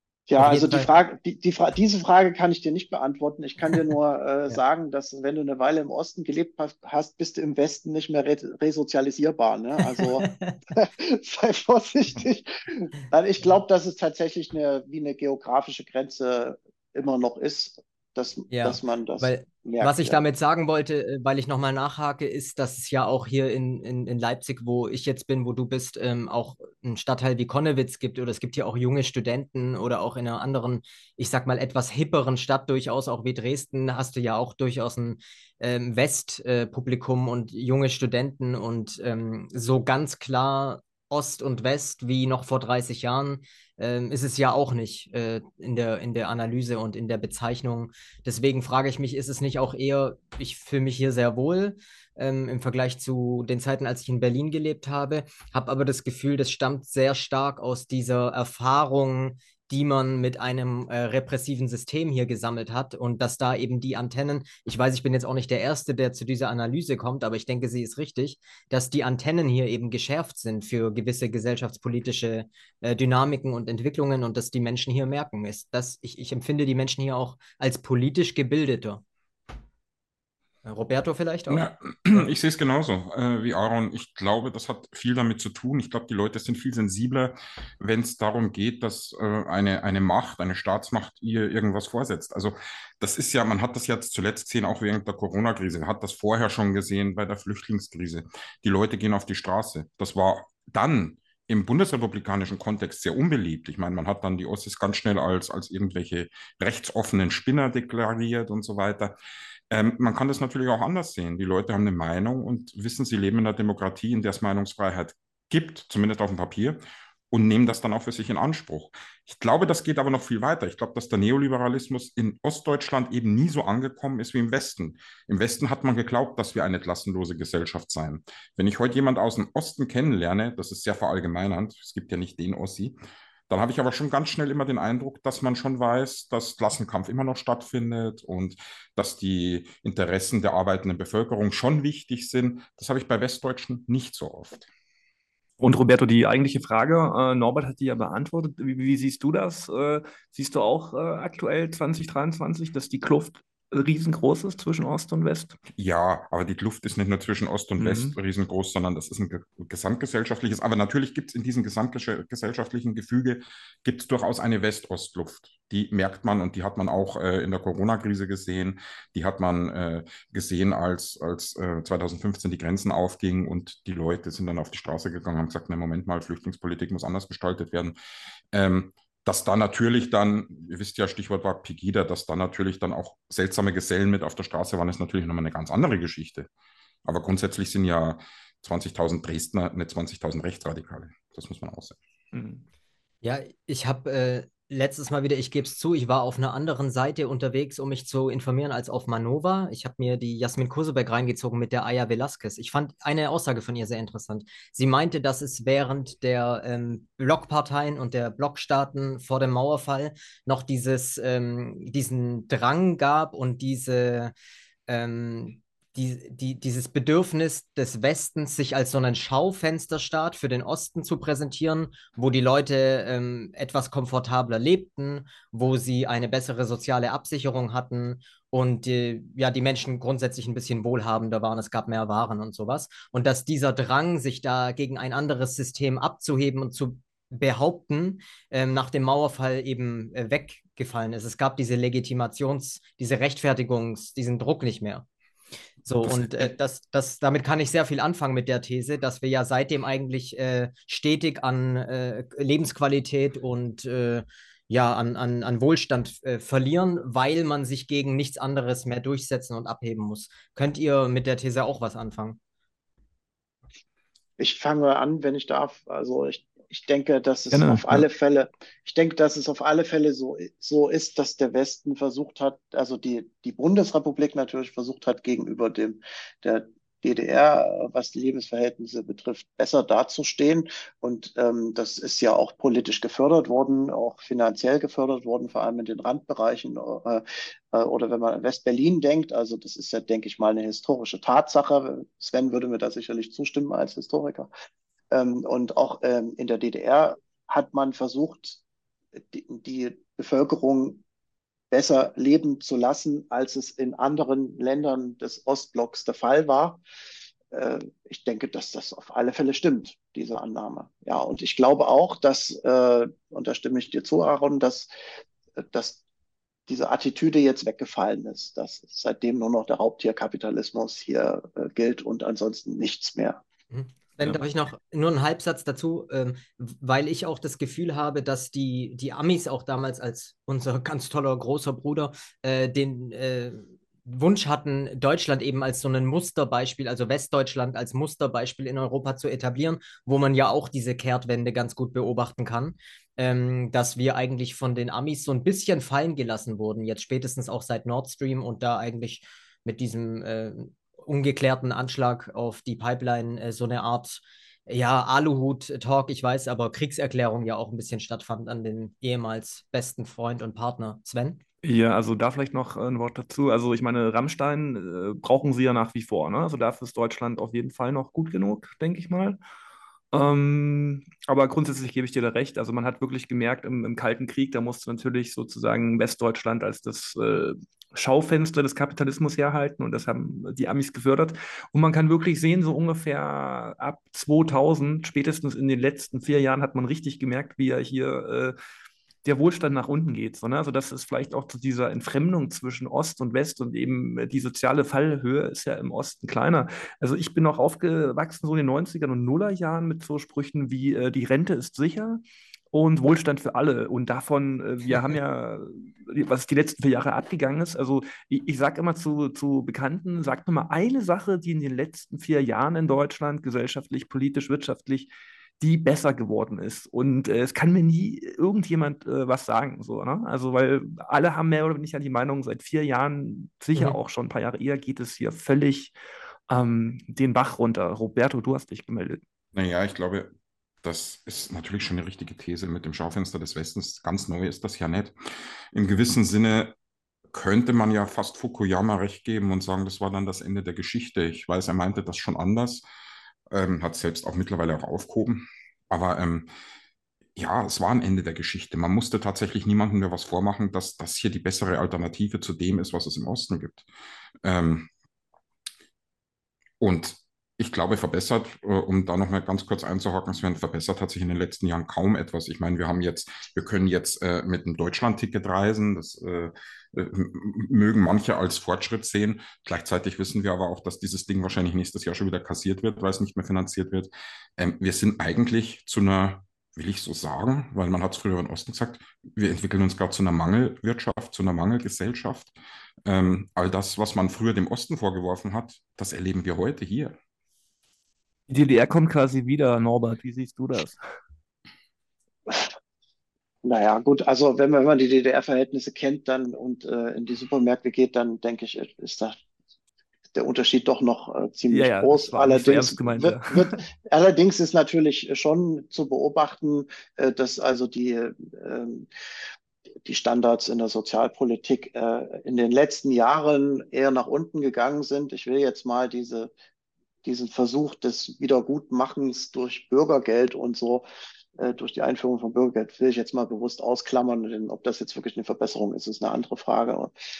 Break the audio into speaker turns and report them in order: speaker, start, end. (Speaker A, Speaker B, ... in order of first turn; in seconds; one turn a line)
Speaker A: 0.3-20.2
Speaker B: 0.4-0.9
Speaker B: 10.2-10.6
Speaker B: 18.5-79.0
Speaker B: 80.6-82.3
Speaker C: 81.5-109.1
Speaker C: 109.7-116.8
Speaker C: 117.3-132.9
Speaker C: 133.5-144.7
Speaker D: 145.6-155.6
Speaker C: 155.8-177.9
Speaker D: 157.8-158.2
Speaker C: 178.5-186.5
Speaker C: 187.1-192.0
Speaker D: 192.3-192.7
Speaker B: 193.2-214.3
Speaker B: 214.9-245.1
Speaker B: 245.8-262.4
Speaker C: 246.0-246.5
Speaker A: 264.4-294.5
Speaker D: 267.5-268.1
Speaker A: 295.1-298.6
Speaker A: 299.2-301.0
Speaker A: 301.7-306.8
Speaker A: 307.5-314.9
Speaker A: 315.6-316.0
Speaker A: 316.7-323.4
Speaker B: 323.7-361.4
Speaker D: 361.6-369.4
Speaker D: 370.1-388.6
Speaker D: 389.2-402.2
Speaker D: 402.7-425.9
Speaker D: 426.5-429.2
Speaker C: 429.6-430.3
Speaker C: 430.8-435.1
Speaker C: 435.7-436.7
Speaker C: 437.3-442.8
Speaker C: 443.5-446.5
Speaker C: 447.4-453.9
Speaker C: 454.4-454.9
Speaker C: 456.8-482.5
Speaker C: 483.1-487.2
Speaker D: 488.5-491.0
Speaker A: 492.5-492.7
Speaker A: 493.6-499.4
Speaker A: 500.3-509.1
Speaker D: 501.7-503.8
Speaker A: 510.0-516.5
Speaker A: 517.2-521.0
Speaker A: 521.6-527.1